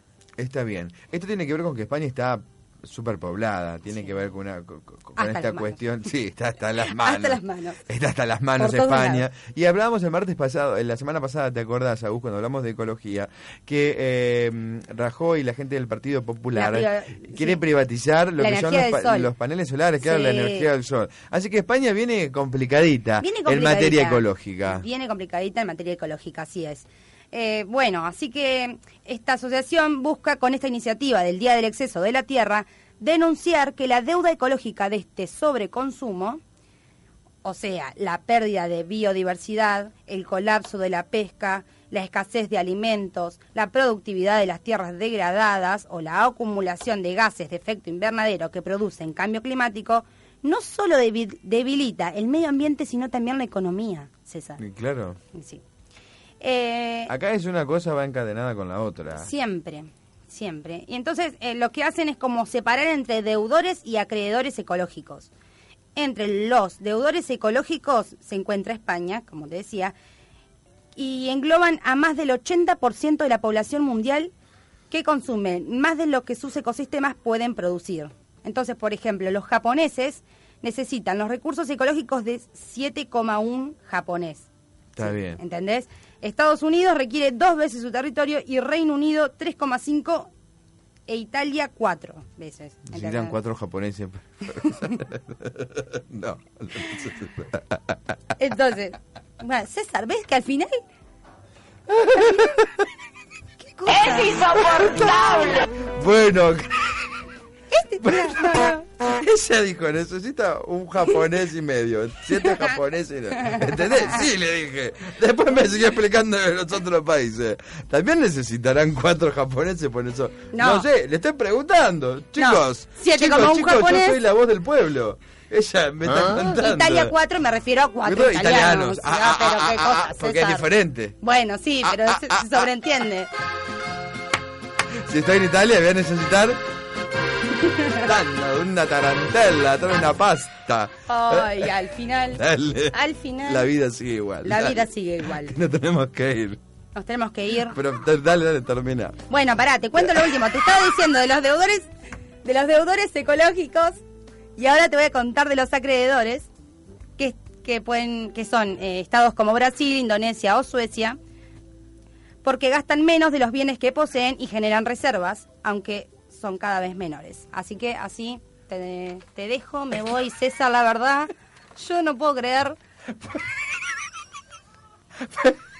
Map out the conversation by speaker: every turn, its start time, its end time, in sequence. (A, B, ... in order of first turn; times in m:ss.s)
0:00.4-0:24.8 A
0:05.2-0:05.8 B
0:06.9-0:07.8 B
0:08.6-0:09.3 B
0:16.5-0:17.6 B
0:18.4-0:19.3 B
0:20.0-0:20.7 B
0:23.2-0:36.4 B
0:37.4-0:54.6 B
0:54.6-0:55.2 A
0:55.3-0:55.6 B
0:56.4-0:57.1 B
0:57.1-0:59.3 A
0:59.2-1:05.3 B
1:06.0-1:10.0 B
1:11.0-1:14.3 B
1:14.9-1:24.4 B
1:25.0-1:25.4 A
1:25.0-1:30.3 B
1:31.1-1:33.4 B
1:32.9-1:37.8 A
1:38.4-1:40.8 B
1:42.1-1:42.7 A
1:43.6-1:45.4 B
1:45.0-1:47.0 A
1:47.7-1:48.8 B
1:48.0-2:07.1 A
2:00.5-2:00.9 B
2:02.4-2:04.2 B
2:06.2-2:10.7 B
2:08.0-2:11.2 A
2:11.2-2:13.3 B
2:11.8-2:12.7 A
2:15.0-2:16.6 A
2:17.9-2:21.7 A
2:21.1-2:23.7 B
2:22.4-2:24.8 A
2:24.4-2:25.6 B
2:25.4-2:26.6 A
2:26.9-2:27.8 B
2:27.7-2:29.2 A
2:29.3-2:31.9 B
2:32.4-2:34.0 B
2:34.6-2:36.5 B
2:37.2-2:41.2 B
2:42.4-2:52.8 B
2:55.2-2:55.6 A